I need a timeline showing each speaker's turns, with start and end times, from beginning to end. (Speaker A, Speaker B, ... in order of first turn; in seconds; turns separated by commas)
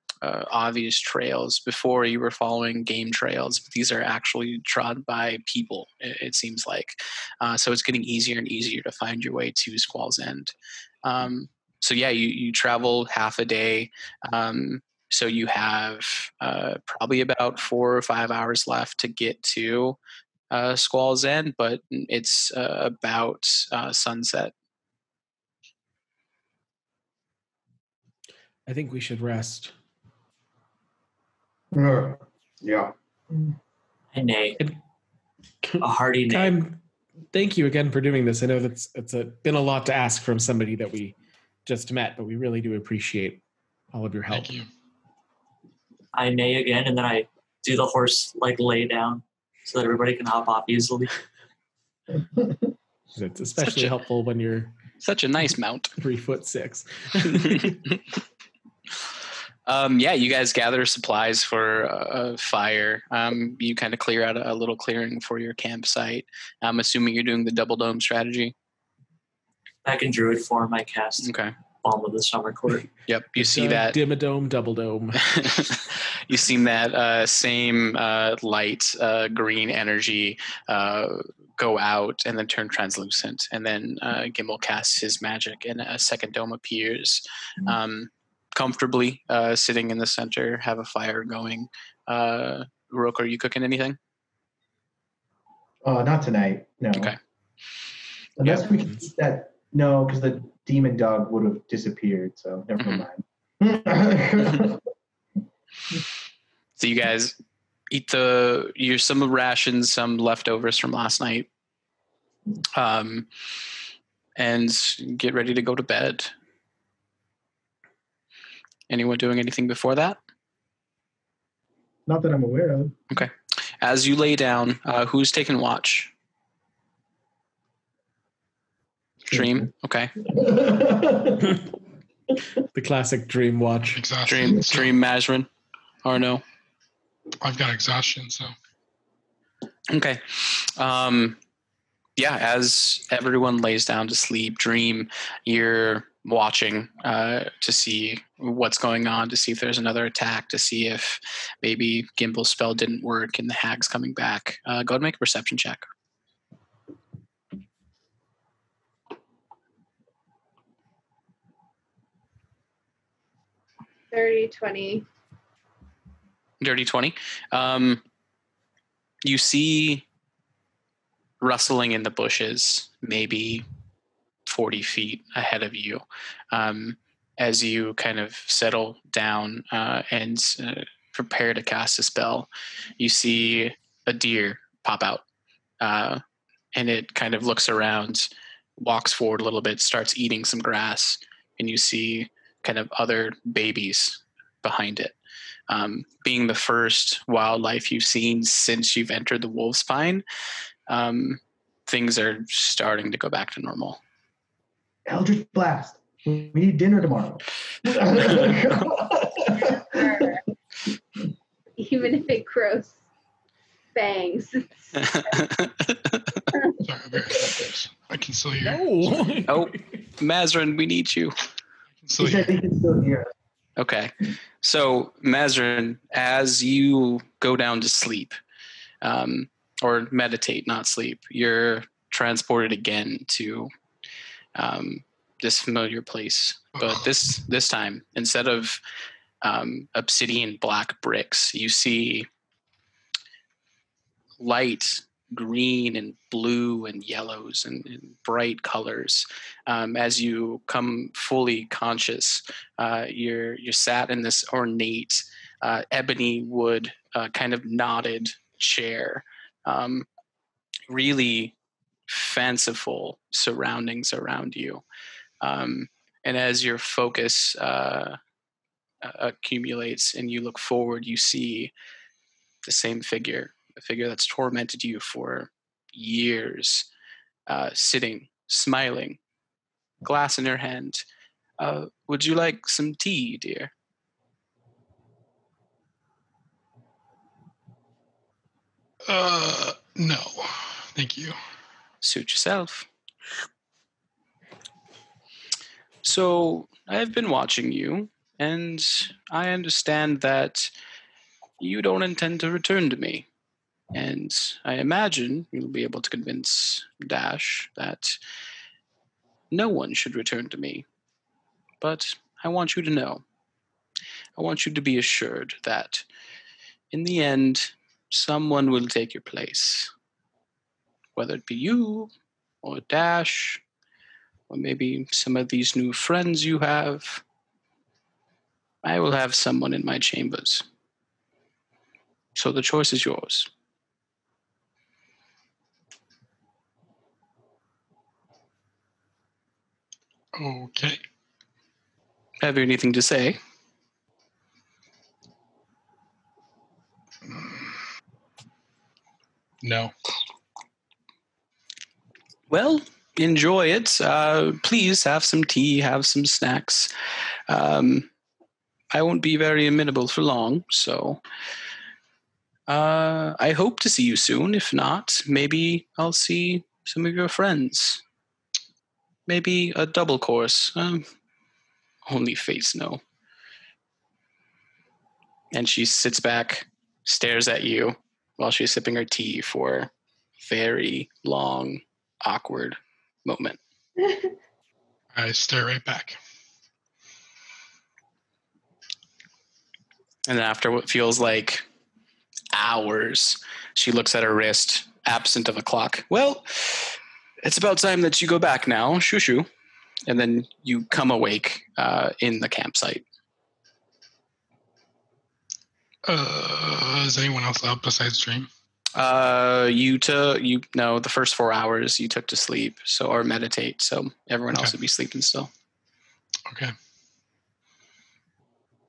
Speaker A: 0.2-10.5, Speaker A: 11.0-20.0, Speaker A: 20.5-24.5, Speaker B: 28.7-29.8, Speaker C: 31.7-33.5, Speaker D: 34.1-34.6, Speaker B: 35.6-36.8, Speaker D: 35.8-36.6, Speaker B: 37.3-44.5, Speaker E: 44.3-44.7, Speaker D: 46.1-51.2, Speaker B: 53.1-54.8, Speaker A: 53.6-53.9, Speaker A: 55.0-55.9, Speaker B: 56.0-57.8, Speaker A: 57.3-57.8, Speaker A: 59.7-68.5, Speaker D: 69.8-71.3, Speaker A: 71.2-71.5, Speaker D: 71.8-72.9, Speaker A: 73.1-74.0, Speaker B: 73.4-75.3, Speaker A: 75.3-94.0, Speaker C: 95.8-97.1, Speaker C: 98.4-104.8, Speaker A: 102.8-103.0, Speaker A: 106.8-107.4, Speaker A: 107.9-111.5, Speaker A: 112.8-113.3, Speaker A: 114.4-116.3, Speaker A: 118.9-120.2, Speaker C: 122.1-123.0, Speaker A: 123.1-126.1, Speaker A: 129.3-130.1, Speaker C: 129.3-129.7, Speaker C: 130.2-131.6, Speaker B: 132.7-134.0, Speaker E: 133.9-134.9, Speaker A: 134.2-135.5, Speaker A: 136.0-136.4, Speaker E: 137.4-138.5, Speaker A: 139.9-141.4, Speaker A: 142.2-155.8, Speaker F: 164.1-165.1, Speaker A: 166.6-168.0, Speaker A: 169.2-170.0, Speaker A: 171.4-173.7, Speaker A: 174.5-185.2, Speaker A: 185.8-186.2, Speaker A: 186.8-195.2, Speaker A: 195.7-200.2, Speaker A: 200.9-204.0, Speaker C: 205.1-210.3, Speaker F: 209.7-210.4, Speaker F: 211.8-213.0, Speaker F: 213.9-214.8, Speaker A: 215.0-216.4, Speaker E: 216.8-219.1, Speaker B: 218.6-220.1, Speaker A: 219.5-221.3, Speaker E: 222.1-222.6, Speaker C: 222.2-223.3, Speaker A: 223.8-228.4, Speaker A: 229.0-233.7, Speaker A: 234.6-238.8, Speaker A: 239.4-242.3, Speaker A: 244.4-260.1, Speaker A: 260.9-261.5, Speaker A: 262.1-264.8, Speaker A: 265.4-268.2, Speaker A: 269.0-271.7, Speaker A: 272.7-276.9, Speaker A: 277.5-279.2, Speaker A: 280.0-281.1, Speaker A: 281.6-283.7, Speaker E: 289.1-291.4, Speaker A: 292.0-292.9, Speaker A: 296.0-300.7, Speaker A: 301.6-303.3, Speaker A: 303.9-308.2, Speaker A: 309.5-310.9, Speaker A: 311.8-313.2, Speaker A: 314.4-316.1, Speaker A: 316.9-319.9, Speaker A: 321.2-322.1, Speaker A: 322.6-323.6, Speaker A: 324.5-327.2, Speaker A: 328.8-330.6, Speaker A: 332.4-333.5, Speaker E: 340.4-341.0, Speaker A: 342.4-343.4, Speaker E: 347.3-347.7, Speaker E: 349.6-349.9, Speaker A: 352.5-356.9, Speaker A: 357.5-358.1, Speaker A: 358.9-361.2, Speaker A: 362.7-368.0, Speaker A: 369.3-371.1, Speaker A: 372.1-373.0, Speaker A: 375.5-383.6, Speaker E: 385.1-386.2, Speaker A: 390.3-391.6, Speaker A: 392.5-399.5, Speaker A: 400.1-403.1, Speaker E: 406.1-408.5, Speaker A: 409.0-415.5, Speaker E: 416.5-416.8